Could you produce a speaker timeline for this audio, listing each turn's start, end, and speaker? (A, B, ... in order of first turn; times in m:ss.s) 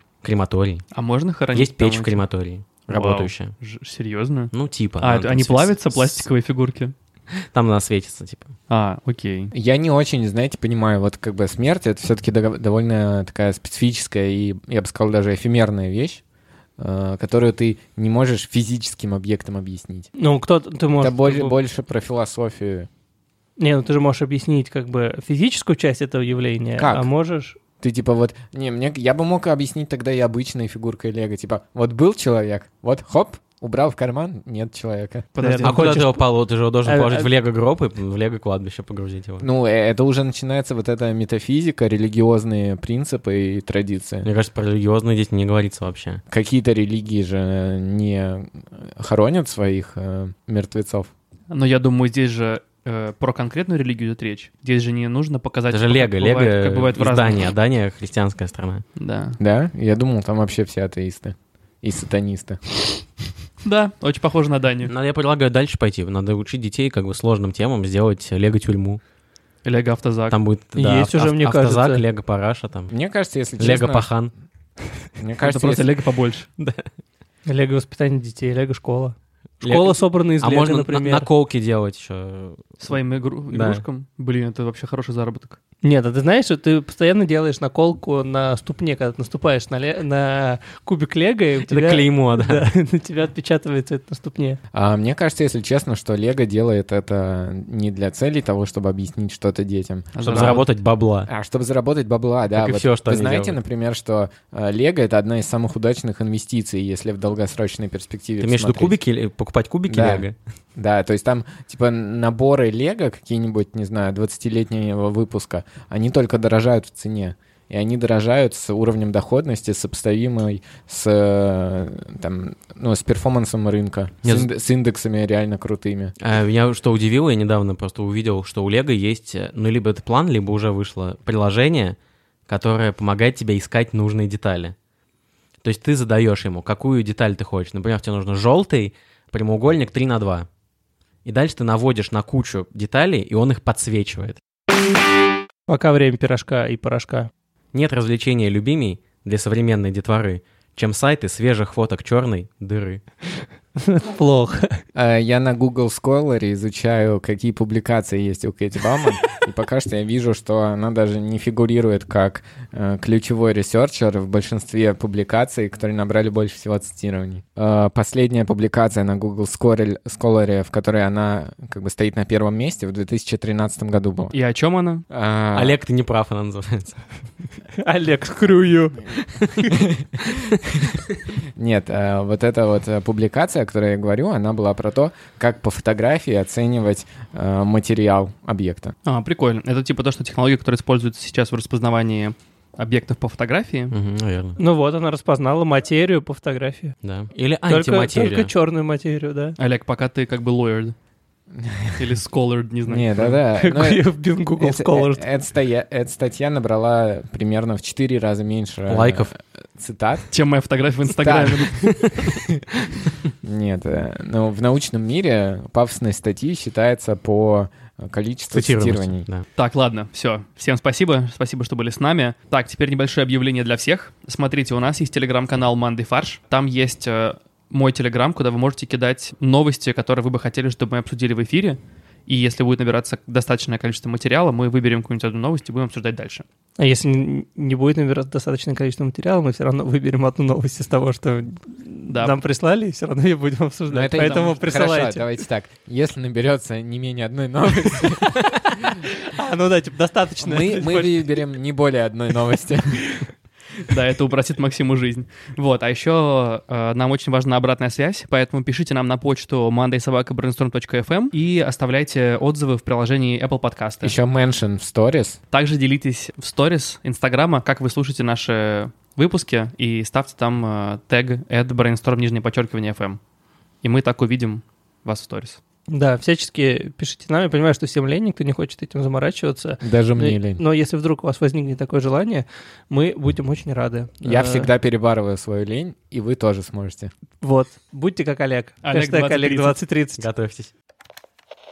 0:00.2-0:00.8 A
0:00.9-0:02.2 B
0:01.5-0:03.5 A
0:02.9-0:06.9 B
0:04.5-0:06.3 A
0:07.5-0:08.5 A
0:08.7-0:09.5 B
0:09.5-0:16.2 C
0:16.8-0:20.1 C
0:20.2-0:21.6 D
0:21.0-0:22.9 C
0:23.6-0:27.6 D
0:26.8-0:27.1 C
0:27.8-0:35.3 C
0:35.4-0:36.0 B
0:35.4-0:36.2 D
0:35.6-0:39.5 A
0:36.8-0:37.3 D
0:39.4-0:44.3 C
0:44.2-0:46.2 A
0:46.3-0:51.1 C
0:51.5-0:57.5 B
0:55.7-0:58.8 A
0:59.0-0:59.4 B
0:59.4-1:02.6 C
1:03.6-1:04.9 B
1:04.9-1:09.0 A
1:09.6-1:10.4 B
1:10.3-1:12.9 A
1:10.8-1:12.0 D
1:12.9-1:14.1 C
1:13.6-1:14.3 A
1:15.2-1:15.9 C
1:15.4-1:16.5 B
1:16.6-1:16.9 A
1:17.5-1:21.3 D
1:19.6-1:22.8 A
1:22.8-1:25.6 B
1:23.5-1:23.8 A
1:25.8-1:34.6 D
1:31.7-1:32.6 A
1:34.7-1:40.6 C
1:40.2-1:40.7 B
1:40.2-1:41.3 A
1:41.3-1:49.0 C
1:42.5-1:43.6 A
1:48.4-1:50.4 A
1:49.9-1:50.2 C
1:50.8-2:06.2 C
2:06.2-2:12.0 A
2:12.5-2:14.8 A
2:15.6-2:20.5 A
2:21.2-2:24.4 A
2:25.7-2:27.3 D
2:27.7-2:33.0 A
2:33.8-2:34.8 D
2:34.9-2:54.3 C
2:54.3-2:55.0 B
2:55.1-2:55.8 C
2:55.5-2:57.0 A
2:57.8-2:59.1 D
3:00.0-3:00.9 C
3:01.6-3:09.0 C
3:09.1-3:13.9 B
3:13.9-3:14.6 A
3:14.6-3:17.0 D
3:17.0-3:18.5 A
3:17.7-3:19.6 D
3:19.6-3:21.0 B
3:21.5-3:22.1 C
3:22.0-3:23.4 B
3:22.8-3:24.0 C
3:23.6-3:25.3 D
3:24.6-3:30.3 C
3:28.9-3:29.3 A
3:30.3-3:32.1 B
3:31.2-3:32.4 C
3:33.4-3:39.3 C
3:38.5-3:39.4 A
3:39.6-3:56.4 B
3:56.8-4:05.3 D
4:02.1-4:02.4 B
4:03.9-4:09.0 C
4:04.2-4:04.5 B
4:09.2-4:11.4 D
4:10.4-4:13.1 C
4:13.9-4:24.2 B
4:24.0-4:25.4 C
4:25.5-4:33.2 B
4:33.8-4:35.6 B
4:35.9-4:44.7 D
4:39.8-4:40.6 C
4:44.2-4:47.1 C
4:47.4-4:50.3 D
4:48.8-4:49.8 B
4:50.2-4:50.7 A